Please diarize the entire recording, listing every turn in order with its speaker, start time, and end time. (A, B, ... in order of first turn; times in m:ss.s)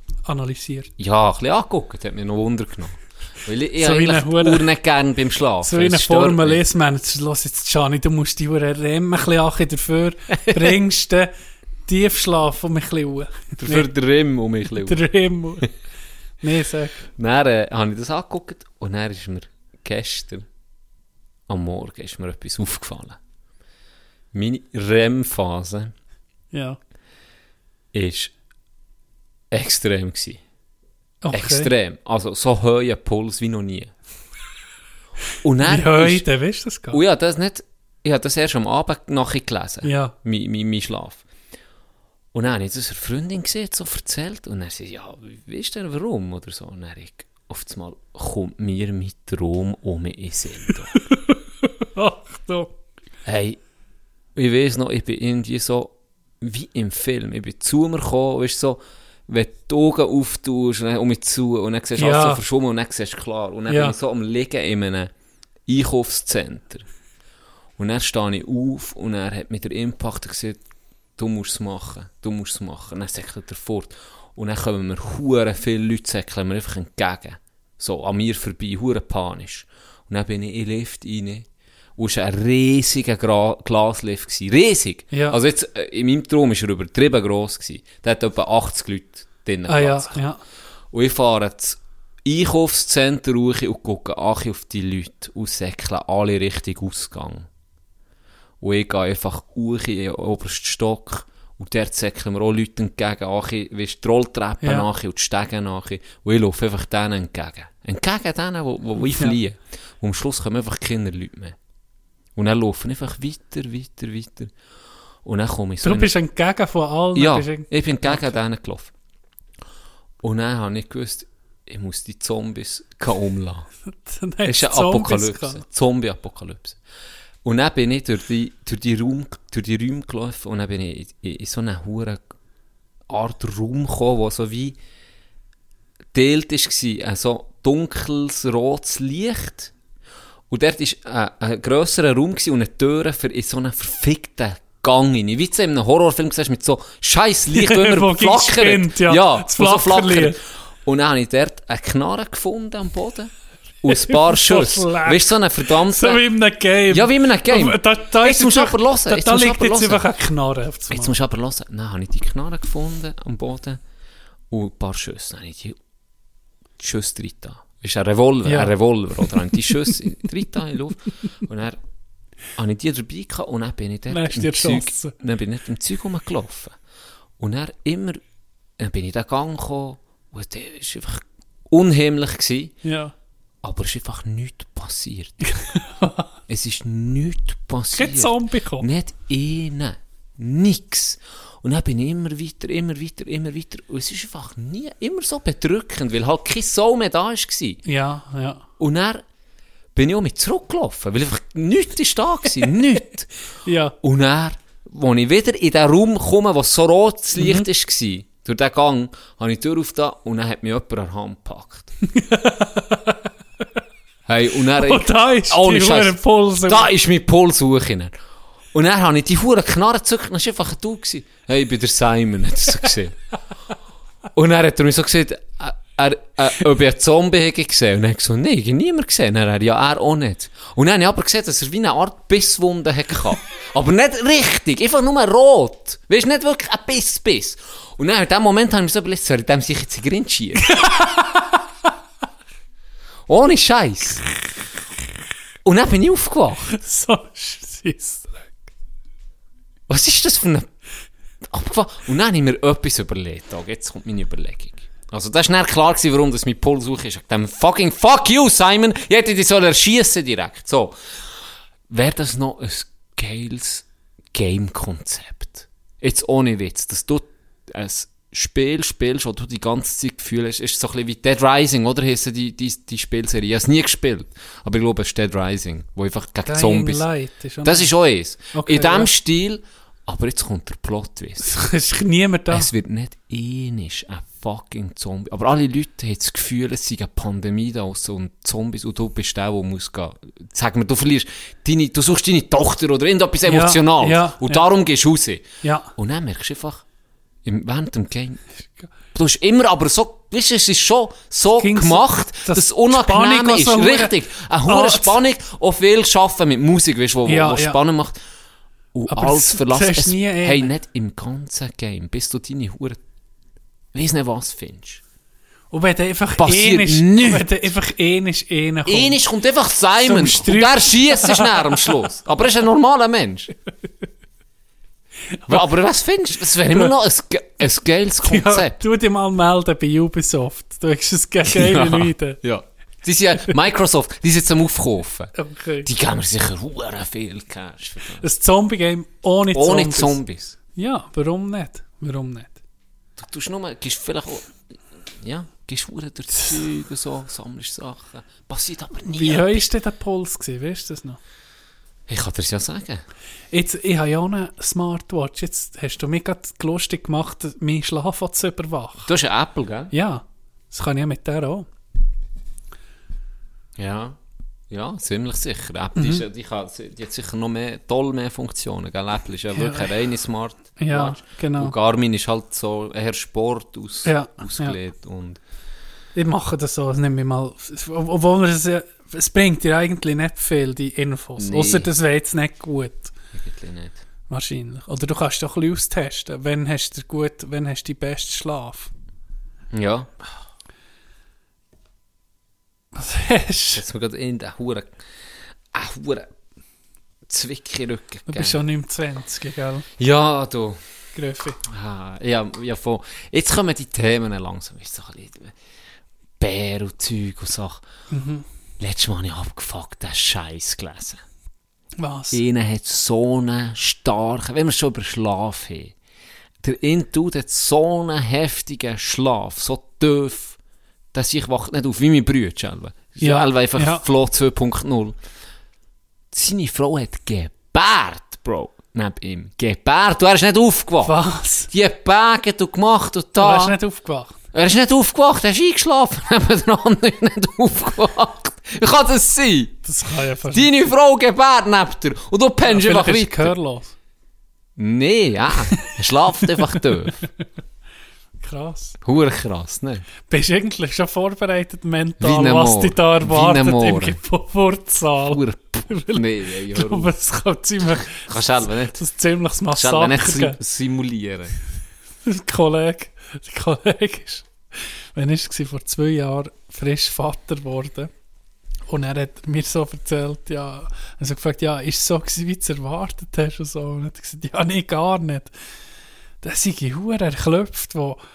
0:00.3-0:00.9 A
0:01.0-0:06.6 B
0:03.8-0:04.7 A
0:05.6-0:11.3 A
0:11.9-0:13.9 A
0:13.6-0:15.0 B
0:14.8-0:15.7 A
0:16.4-0:17.1 A
0:17.2-0:20.5 B
0:21.5-0:23.2 B
0:24.3-0:25.9 B
0:26.5-0:26.8 A
0:27.9-0:28.3 B
0:29.5-0:30.4 B
0:31.2-0:31.7 A
0:31.3-0:33.9 B
0:35.4-0:36.3 B
0:35.6-0:37.0 A
0:36.9-0:41.2 B
0:39.8-0:40.1 A
0:42.3-0:51.0 B
0:51.1-0:52.7 A
0:53.2-0:53.6 B
0:54.4-1:05.1 B
1:02.0-1:02.4 A
1:03.7-1:04.0 A
1:05.7-1:06.9 B
1:07.8-1:10.6 B
1:11.2-1:30.2 B
1:25.1-1:25.4 A
1:29.7-1:30.4 A
1:30.9-1:37.5 B
1:38.6-1:51.6 B
1:44.6-1:44.9 A
1:49.1-1:49.4 A
1:52.4-1:54.5 B
1:55.2-1:56.1 B
1:55.8-1:58.3 A
1:57.1-1:58.9 B
2:00.2-2:03.7 B
2:04.0-2:05.6 A
2:04.4-2:06.8 B
2:07.4-2:12.2 B
2:13.1-2:14.8 B
2:16.1-2:19.7 B
2:20.5-2:33.3 B
2:27.5-2:30.4 A
2:33.8-2:36.2 B
2:33.9-2:41.1 A
2:36.9-2:40.0 B
2:40.9-2:43.8 B
2:44.5-2:45.8 B
2:46.8-2:51.8 B
2:48.4-2:48.7 A
2:52.6-2:56.8 B
2:54.1-2:55.1 A
2:57.4-2:58.2 B
2:58.8-3:02.8 B
3:02.8-3:03.1 A
3:03.6-3:05.5 B
3:05.5-3:06.3 A
3:06.5-3:17.8 B
3:07.9-3:08.9 A
3:17.8-3:18.6 A
3:18.8-3:19.2 B
3:20.0-3:23.3 B
3:23.7-3:24.0 A
3:24.0-3:31.9 B
3:27.4-3:27.7 A
3:32.1-3:33.2 A
3:34.3-3:38.1 B
3:34.8-3:36.9 A
3:38.7-3:43.2 B
3:44.4-4:00.8 B
4:00.7-4:01.3 A
4:03.3-4:04.2 B
4:05.6-4:06.8 B
4:06.7-4:08.5 A
4:09.9-4:10.7 B
4:11.4-4:21.0 B
4:21.9-4:37.0 B
4:36.5-4:37.9 A
4:37.6-4:41.5 B
4:38.5-4:39.1 A
4:41.4-4:42.7 A
4:42.5-4:55.4 B
4:53.4-4:54.7 A
4:55.6-4:55.9 A
4:56.0-4:56.8 B
4:57.4-4:58.4 B
4:59.1-5:08.2 B
5:01.6-5:04.1 A
5:04.7-5:05.2 A
5:07.3-5:07.8 A
5:08.9-5:13.0 B
5:09.1-5:10.7 A
5:13.9-5:15.0 B
5:15.7-5:19.2 A
5:16.4-5:17.5 B
5:18.9-5:23.5 B
5:20.0-5:21.9 A
5:25.5-5:28.8 B
5:28.2-5:32.4 A
5:31.4-5:35.3 B
5:35.4-5:35.9 A
5:35.8-5:38.2 B
5:38.2-5:40.2 A
5:39.5-5:40.6 B
5:40.8-5:42.6 A
5:43.2-5:44.5 B
5:45.2-5:49.6 B
5:49.1-5:51.2 A
5:52.1-5:53.0 B
5:53.5-5:59.1 A
5:59.1-5:59.9 B
5:59.9-6:01.7 A
6:03.8-6:04.2 B
6:04.7-6:15.4 B
6:06.0-6:06.2 A
6:09.5-6:09.9 A
6:10.8-6:11.8 A
6:14.0-6:14.8 A
6:16.2-6:23.1 A
6:21.4-6:21.9 B
6:23.3-6:24.0 B
6:24.3-6:28.9 A
6:29.7-6:30.1 B
6:33.0-6:33.8 A
6:33.8-6:34.9 B
6:35.7-6:36.3 B
6:37.3-6:38.6 B
6:38.3-6:39.9 A
6:40.0-6:40.8 B
6:41.2-6:41.6 A
6:41.6-6:45.6 B
6:46.4-6:47.8 B
6:48.1-6:48.5 A
6:48.8-6:51.2 B
6:52.0-6:52.4 A
6:52.3-6:55.9 B
6:56.6-7:00.6 B
7:01.1-7:05.2 B
7:03.2-7:04.1 A
7:06.3-7:11.2 B
7:11.0-7:11.7 A
7:11.7-7:13.8 B
7:13.4-7:14.4 A
7:14.5-7:19.8 B
7:19.8-7:20.9 A
7:20.5-7:23.5 B
7:22.6-7:23.9 A
7:24.8-7:27.2 B
7:28.4-7:29.0 A
7:29.0-7:30.0 B
7:30.3-7:40.6 A
7:32.2-7:34.2 B
7:35.3-7:37.1 B
7:38.0-7:39.0 B
7:39.7-7:41.6 B
7:42.2-7:44.5 A
7:45.2-7:48.1 A
7:48.9-7:55.5 A
7:56.4-7:58.2 A